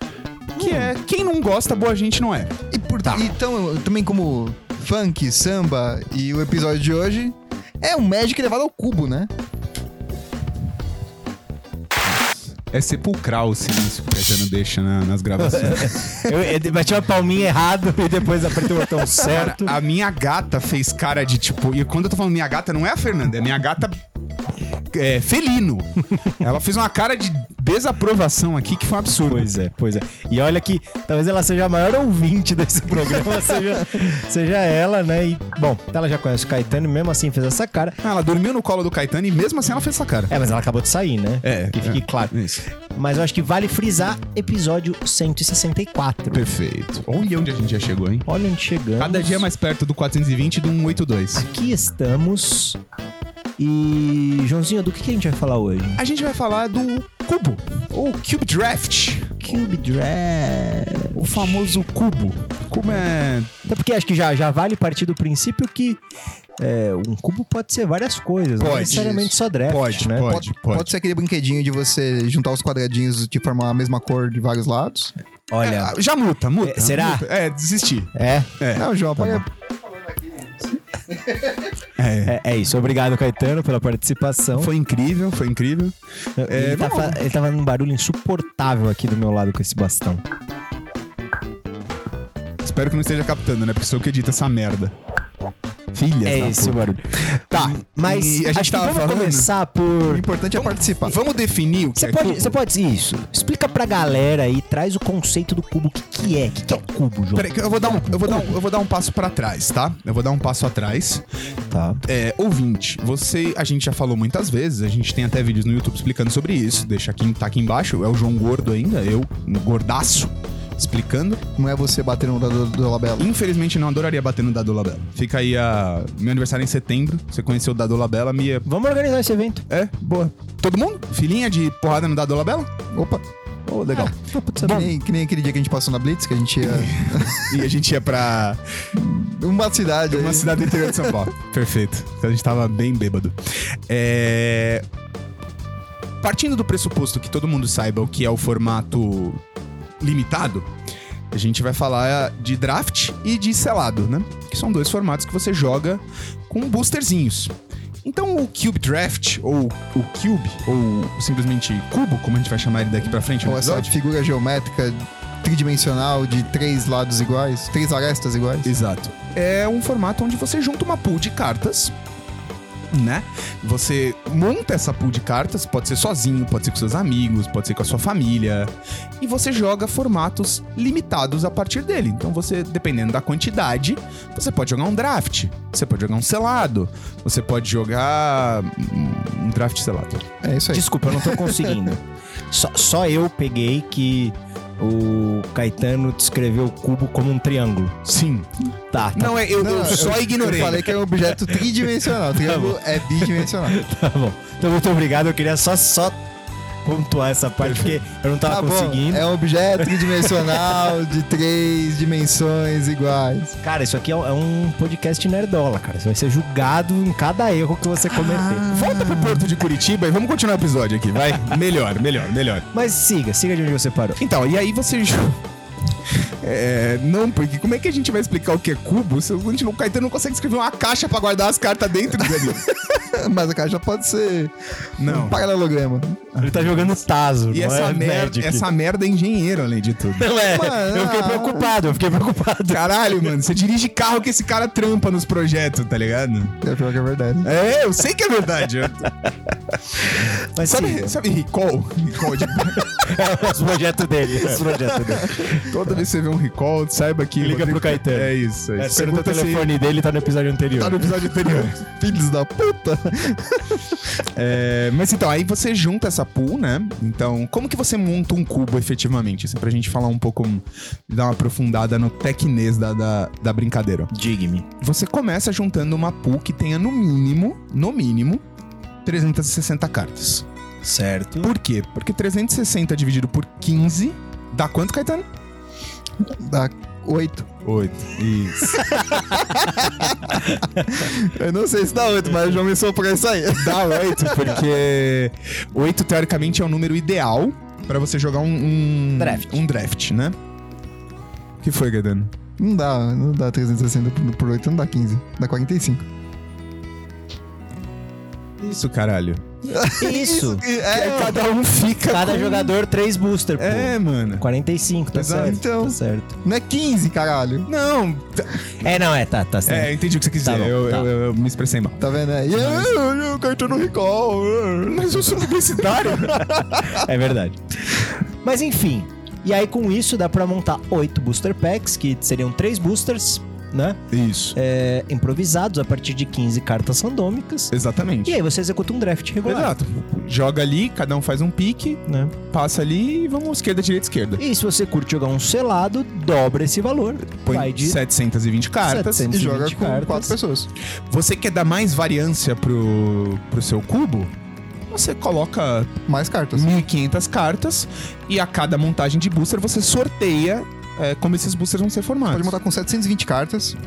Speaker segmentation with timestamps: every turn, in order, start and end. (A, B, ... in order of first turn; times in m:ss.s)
0:00.6-0:02.5 A
0:00.6-0:00.9 B
0:02.7-0:09.3 C
0:12.7-0:16.3 A
0:15.4-0:19.7 B
0:19.1-0:24.0 A
0:24.9-0:29.5 A
0:29.3-0:38.0 B
0:38.0-0:40.3 A
0:40.3-0:46.5 B
0:41.4-0:42.7 A
0:46.3-0:48.2 A
0:48.2-0:49.5 B
0:49.0-0:51.5 A
0:51.4-0:52.8 B
0:53.6-0:56.0 B
0:56.0-0:59.4 A
0:59.4-1:01.8 B
1:01.1-1:03.5 A
1:03.6-1:06.0 B
1:06.6-1:10.4 B
1:08.6-1:10.9 A
1:08.9-1:09.3 C
1:10.3-1:15.1 C
1:15.5-1:15.9 B
1:15.6-1:18.9 A
1:16.6-1:17.3 B
1:18.1-1:18.5 B
1:18.7-1:19.5 C
1:19.2-1:19.4 B
1:22.0-1:22.4 A
1:22.2-1:24.7 B
1:24.6-1:25.9 A
1:26.4-1:30.2 B
1:26.5-1:27.2 A
1:32.6-1:34.9 A
1:35.9-1:36.9 A
1:36.2-1:40.2 B
1:37.5-1:39.5 A
1:40.0-1:41.2 C
1:40.5-1:42.6 A
1:42.0-1:48.5 B
1:47.4-1:51.2 A
1:51.7-1:52.0 B
1:52.0-2:01.4 A
2:01.6-2:03.3 C
2:03.2-2:08.7 A
2:08.7-2:09.6 B
2:09.7-2:12.7 A
2:12.9-2:13.3 C
2:13.8-2:14.1 A
2:13.9-2:14.9 B
2:14.6-2:17.6 C
2:16.7-2:18.6 A
2:18.9-2:21.2 C
2:20.1-2:23.4 A
2:23.9-2:24.8 A
2:26.2-2:29.4 A
2:30.0-2:30.7 A
2:31.3-2:43.9 A
2:43.4-2:48.7 C
2:48.6-2:51.9 A
2:52.9-3:10.2 A
3:10.4-3:11.5 C
3:10.7-3:18.0 B
3:18.0-3:18.5 A
3:18.9-3:20.0 B
3:19.2-3:21.0 A
3:19.6-3:23.8 C
3:22.3-3:26.2 B
3:26.8-3:30.7 B
3:27.6-3:28.0 A
3:28.4-3:33.6 C
3:33.6-3:38.7 B
3:38.2-3:39.5 C
3:38.7-3:42.7 A
3:42.7-3:44.2 B
3:44.2-3:45.4 A
3:46.1-3:52.7 A
3:53.0-3:56.3 C
3:55.0-3:55.4 A
3:56.3-3:56.8 A
3:56.4-3:58.7 B
3:57.5-4:00.3 A
4:00.2-4:02.8 B
4:00.5-4:01.7 C
4:02.7-4:06.6 A
4:06.6-4:07.5 C
4:07.4-4:09.1 A
4:10.0-4:11.2 B
4:10.6-4:13.1 A
4:12.8-4:15.9 B
4:15.5-4:19.7 A
4:17.4-4:21.1 B
4:20.8-4:21.8 A
4:21.1-4:24.0 C
4:24.3-4:34.1 A
4:34.1-4:34.7 B
4:34.8-4:38.4 A
4:39.0-4:40.4 A
4:40.8-4:41.5 B
4:41.4-4:45.3 A
4:46.2-4:47.5 C
4:47.6-4:48.9 A
4:49.2-4:54.6 C
4:50.4-4:50.9 B
4:53.6-5:00.3 A
4:59.2-4:59.6 B
5:01.6-5:02.3 A
5:02.6-5:06.0 C
5:08.6-5:09.4 A
5:09.7-5:11.4 C
5:10.0-5:10.6 B
5:10.2-5:12.8 A
5:12.0-5:16.4 B
5:13.6-5:14.4 A
5:15.1-5:15.6 A
5:15.4-5:17.7 C
5:17.7-5:18.7 A
5:18.8-5:21.1 B
5:19.7-5:22.0 A
5:22.0-5:25.4 C
5:24.9-5:26.5 A
5:26.3-5:34.0 B
5:26.5-5:26.9 C
5:34.1-5:34.6 A
5:34.5-5:37.7 B
5:37.7-5:38.4 A
5:38.3-5:39.8 B
5:39.4-5:44.4 A
5:42.1-5:42.3 B
5:44.4-5:48.0 B
5:47.4-5:49.3 A
5:48.8-5:50.4 B
5:49.3-5:50.7 C
5:51.1-5:54.3 A
5:54.9-5:56.0 A
5:56.1-5:56.7 C
5:56.5-6:02.5 A
6:02.3-6:03.8 C